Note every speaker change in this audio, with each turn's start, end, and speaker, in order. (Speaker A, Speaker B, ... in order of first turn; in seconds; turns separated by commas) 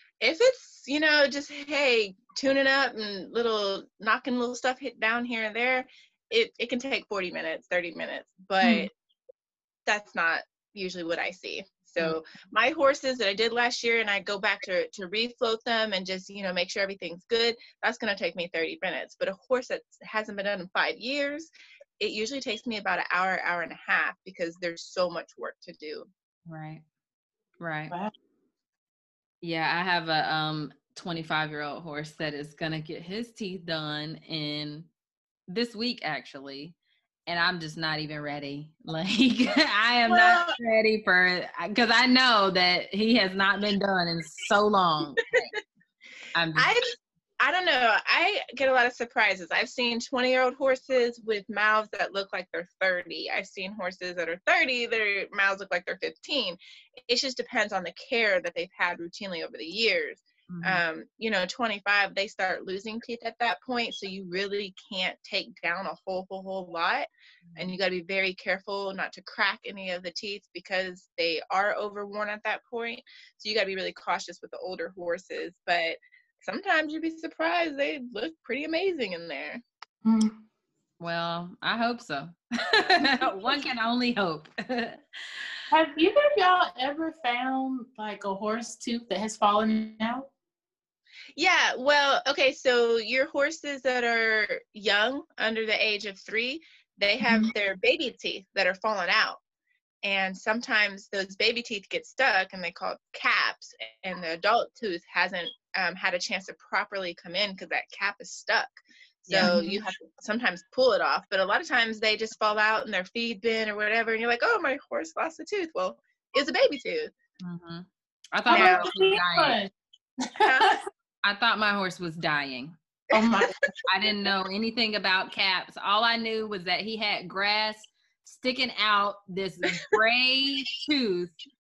Speaker A: 0.2-8.9, Speaker B: 8.6-8.9, Speaker A: 9.8-26.1, Speaker C: 26.5-26.8, Speaker C: 27.6-27.9, Speaker C: 29.4-34.9, Speaker C: 35.5-36.7, Speaker C: 37.3-45.5, Speaker A: 40.1-40.6, Speaker C: 46.3-46.7, Speaker A: 46.5-79.6, Speaker C: 60.5-60.8, Speaker C: 67.5-67.7, Speaker B: 80.0-80.4, Speaker C: 81.0-85.4, Speaker B: 85.7-90.3, Speaker A: 91.3-99.4, Speaker B: 97.2-97.5, Speaker A: 100.0-117.1, Speaker C: 109.3-109.6, Speaker B: 109.4-109.8, Speaker C: 117.4-119.6, Speaker B: 118.5-119.7, Speaker A: 118.5-118.9, Speaker B: 120.2-120.8, Speaker A: 120.4-120.8, Speaker C: 121.2-122.8, Speaker B: 123.1-123.5, Speaker C: 123.9-131.3